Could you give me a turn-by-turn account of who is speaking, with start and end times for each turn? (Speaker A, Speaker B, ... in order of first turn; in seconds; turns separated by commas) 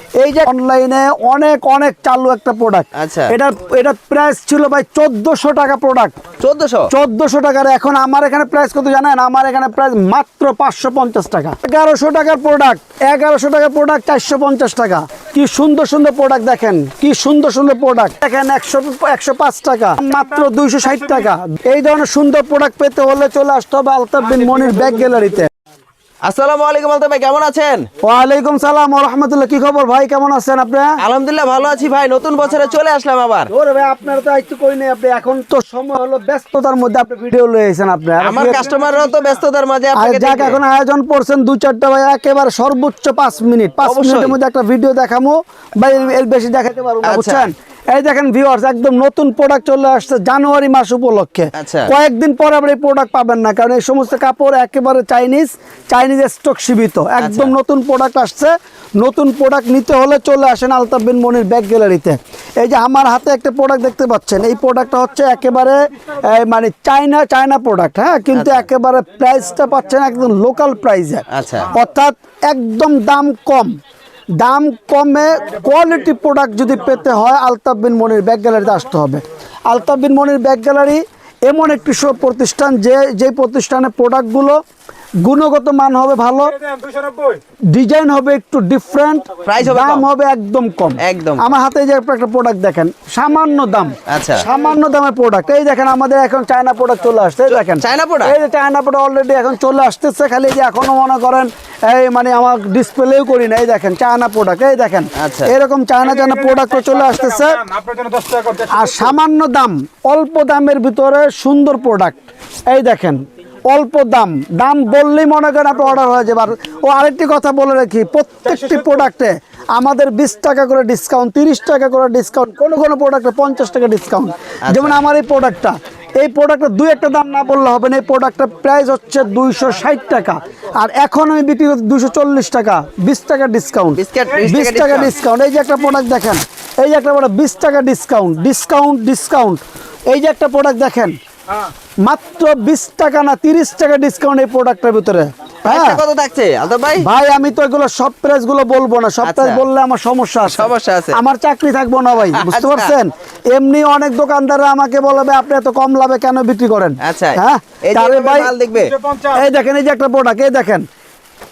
Speaker A: 0.2-6.1, Speaker B: 2.9-3.3, Speaker B: 6.4-6.9, Speaker A: 6.9-25.5, Speaker B: 26.2-27.9, Speaker A: 28.0-31.0, Speaker B: 31.0-33.5, Speaker A: 33.5-38.6, Speaker B: 38.2-40.6, Speaker A: 39.9-73.7, Speaker B: 43.8-44.4, Speaker B: 47.0-47.5, Speaker B: 51.5-51.9, Speaker B: 57.2-57.5, Speaker B: 68.3-68.6, Speaker B: 71.3-71.7, Speaker A: 74.4-84.6, Speaker A: 85.2-86.6, Speaker C: 86.8-87.3, Speaker A: 87.7-107.6, Speaker B: 89.4-90.0, Speaker B: 91.0-91.5, Speaker B: 94.1-94.5, Speaker B: 97.5-98.3, Speaker B: 105.2-105.5, Speaker C: 106.2-108.9, Speaker A: 108.7-112.2, Speaker A: 112.7-141.1, Speaker B: 124.6-125.0, Speaker B: 133.9-135.1, Speaker A: 142.0-146.0, Speaker B: 145.6-147.1, Speaker A: 147.0-158.5, Speaker B: 149.2-149.6, Speaker B: 150.4-151.2, Speaker B: 152.2-152.9, Speaker B: 157.0-159.0, Speaker C: 159.0-159.3, Speaker A: 159.3-160.8